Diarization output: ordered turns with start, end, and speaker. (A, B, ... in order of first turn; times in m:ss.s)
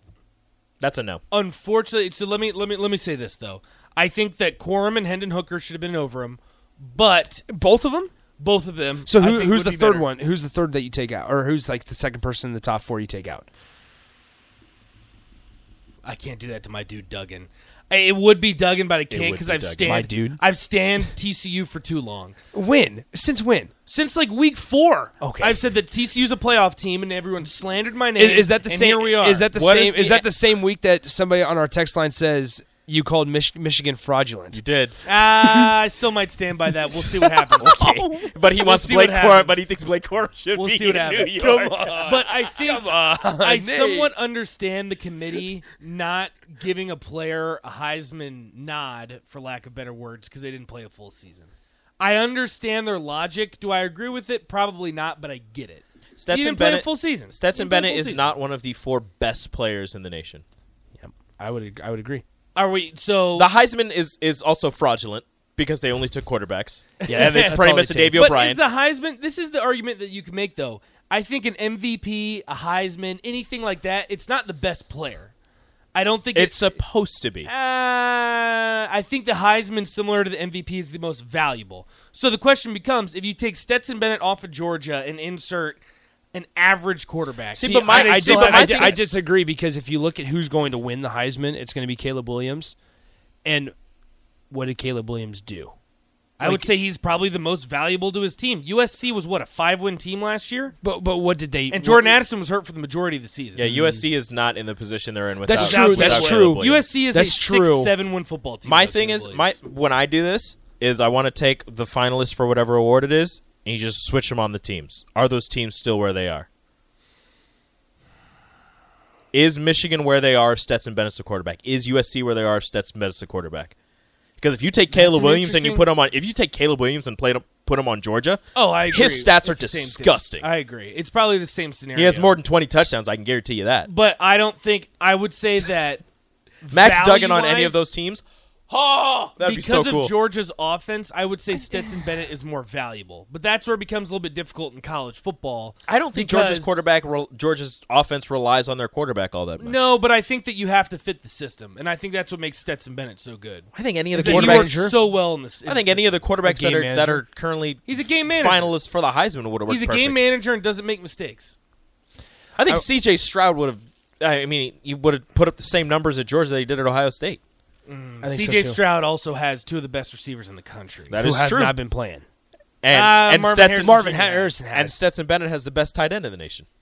0:00.8-0:01.2 A
0:01.3-0:07.4 B
0:07.5-0:08.1 C
0:08.4-0:10.1 B
0:09.0-0:13.5 C
0:16.0-0:22.3 B
0:19.1-0:20.0 A
0:19.8-0:20.4 C
0:22.5-0:23.7 C
0:23.9-0:30.3 B
0:25.2-0:25.6 C
0:28.2-0:34.6 C
0:29.5-0:30.1 A
0:34.5-0:35.0 A
0:35.0-0:37.9 B
0:37.1-0:38.2 C
0:37.6-0:42.4 A
0:38.6-0:39.7 B
0:40.5-0:58.3 B
0:41.4-0:44.1 C
0:56.2-1:00.4 A
1:01.0-1:02.2 C
1:02.5-1:03.5 B
1:03.4-1:08.6 A
1:07.0-1:08.3 C
1:07.1-1:15.3 B
1:15.9-1:16.8 B
1:16.3-1:17.5 A
1:17.4-1:25.8 B
1:26.3-1:29.1 B
1:27.5-1:32.7 C
1:27.6-1:29.1 A
1:33.4-1:33.7 C
1:34.5-1:35.7 C
1:36.4-1:40.7 B
1:36.4-1:36.7 C
1:40.8-1:42.2 C
1:41.7-1:44.0 B
1:43.6-1:46.9 A
1:45.4-1:47.9 C
1:45.5-1:49.6 B
1:48.6-1:56.5 A
1:59.3-2:03.7 A
2:04.4-2:10.4 A
2:04.9-2:05.9 B
2:08.5-2:12.4 B
2:11.9-2:13.9 A
2:13.8-2:16.0 B
2:16.6-2:17.8 B
2:16.7-2:20.2 A
2:19.4-2:26.8 B
2:25.9-2:29.9 A
2:29.6-2:36.2 B
2:33.7-2:34.8 A
2:34.1-2:34.9 C
2:35.6-2:40.2 A
2:36.4-2:37.2 C
2:37.8-2:38.8 B
2:39.7-2:41.5 B
2:42.6-2:47.4 A
2:47.9-2:51.2 B
2:48.2-2:48.8 C
2:51.1-2:51.8 A
2:51.2-2:52.2 C
2:52.8-2:54.0 A
2:52.9-2:54.6 B
2:53.8-2:54.9 C
2:54.7-2:56.6 A